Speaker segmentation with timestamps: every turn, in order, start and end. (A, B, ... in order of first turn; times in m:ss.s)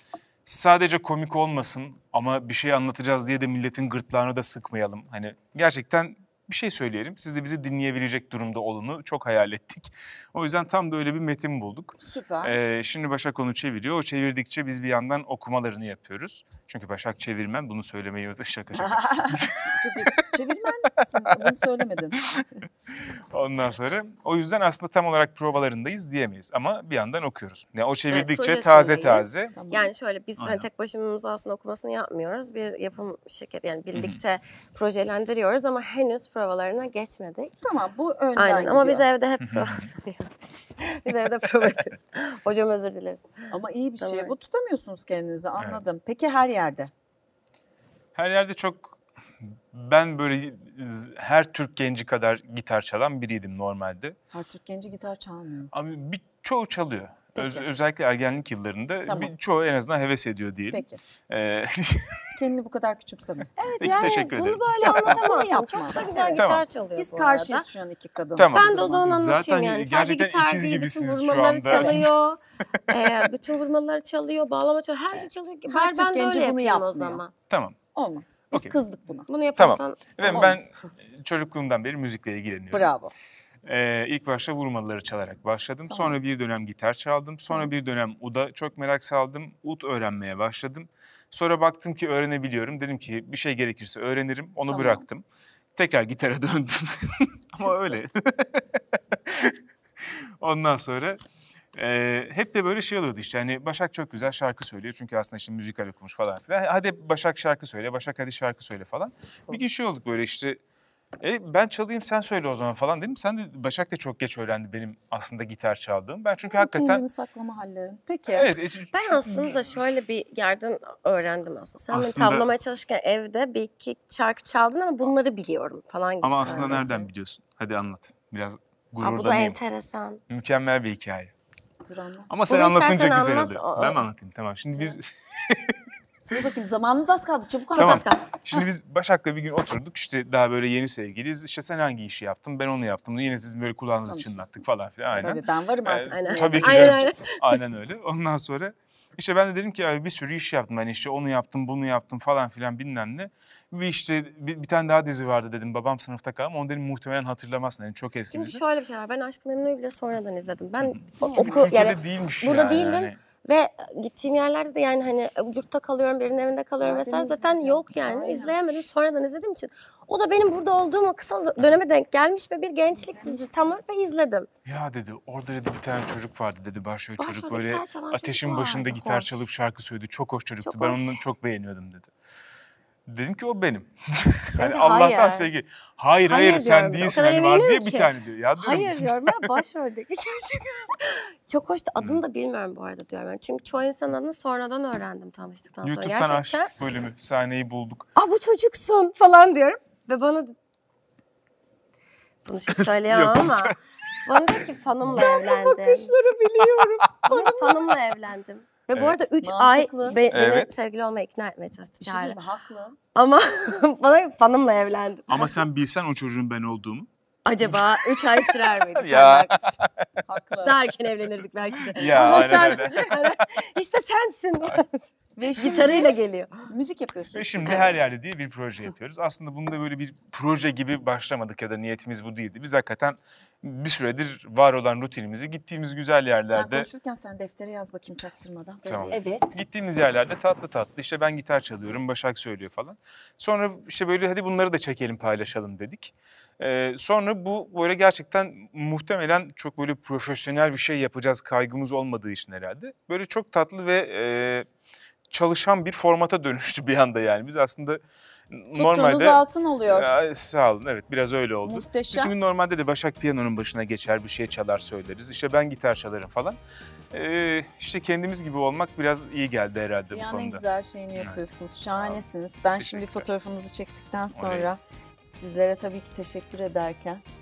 0:00.4-0:19.8 A
0:12.0-0:12.5 B
0:18.8-0:22.2 B
0:22.4-0:29.6 A
0:28.1-0:37.5 C
0:29.6-0:29.9 B
0:30.4-0:30.7 A
0:33.9-0:34.2 A
0:37.6-0:39.0 B
0:38.4-0:44.3 C
0:39.4-0:39.9 A
0:43.5-0:46.9 B
0:45.6-0:45.8 A
0:48.1-0:54.2 A
0:54.3-0:55.7 B
0:55.7-1:02.2 A
0:57.4-0:57.6 B
0:59.1-0:59.3 B
1:00.7-1:01.0 B
1:02.3-1:04.1 B
1:03.6-1:07.7 C
1:03.8-1:05.2 A
1:04.8-1:06.4 B
1:06.4-1:06.6 A
1:07.0-1:09.0 B
1:08.4-1:12.1 A
1:08.5-1:17.3 C
1:11.7-1:12.0 B
1:15.1-1:17.2 B
1:17.5-1:17.8 A
1:17.9-1:19.3 B
1:18.5-1:18.8 A
1:19.3-1:20.9 C
1:19.6-1:22.9 A
1:22.7-1:23.1 B
1:23.6-1:35.2 A
1:25.9-1:26.2 B
1:34.7-1:35.0 B
1:35.7-1:41.2 A
1:37.6-1:37.9 B
1:41.7-1:50.6 A
1:51.2-1:57.0 A
1:56.3-1:58.5 B
1:58.3-1:59.6 A
1:58.9-2:06.9 C
2:01.9-2:02.5 A
2:06.2-2:09.6 A
2:06.4-2:07.1 B
2:09.0-2:10.2 C
2:10.3-2:11.3 A
2:11.8-2:12.3 B
2:12.3-2:15.8 A
2:12.5-2:14.0 C
2:14.7-2:15.0 B
2:16.2-2:18.1 B
2:17.7-2:18.4 C
2:17.8-2:38.6 A
2:24.0-2:27.1 B
2:26.1-2:27.5 C
2:38.3-2:54.5 C
2:41.2-2:41.7 B
2:41.4-2:43.2 A
2:46.8-2:48.6 B
2:52.9-2:53.8 B
2:54.6-3:02.1 A
2:57.2-2:59.4 C
3:00.6-3:01.2 C
3:03.1-3:09.5 A
3:04.6-3:05.5 C
3:06.2-3:16.7 C
3:15.8-3:18.1 A
3:18.2-3:20.5 C
3:22.4-3:26.1 C
3:23.0-3:23.8 A
3:25.1-3:27.9 B
3:27.2-3:32.4 C
3:29.4-3:30.2 B
3:30.3-3:30.7 A
3:32.0-3:33.0 B
3:33.1-3:35.6 C
3:35.3-3:37.1 A
3:37.4-3:39.8 C
3:37.7-3:40.0 A
3:40.3-3:40.8 B
3:40.6-3:45.0 C
3:41.9-3:43.1 A
3:42.0-3:43.0 B
3:45.4-3:46.2 B
3:45.6-3:46.7 C
3:46.7-3:47.9 B
3:47.3-3:56.9 A
3:56.4-3:59.6 B
3:58.8-4:14.7 A
4:15.3-4:26.6 A
4:18.7-4:20.2 B
4:21.6-4:22.3 B
4:27.1-4:30.6 A
4:30.1-4:37.2 B
4:31.2-4:33.3 A
4:34.3-4:34.7 A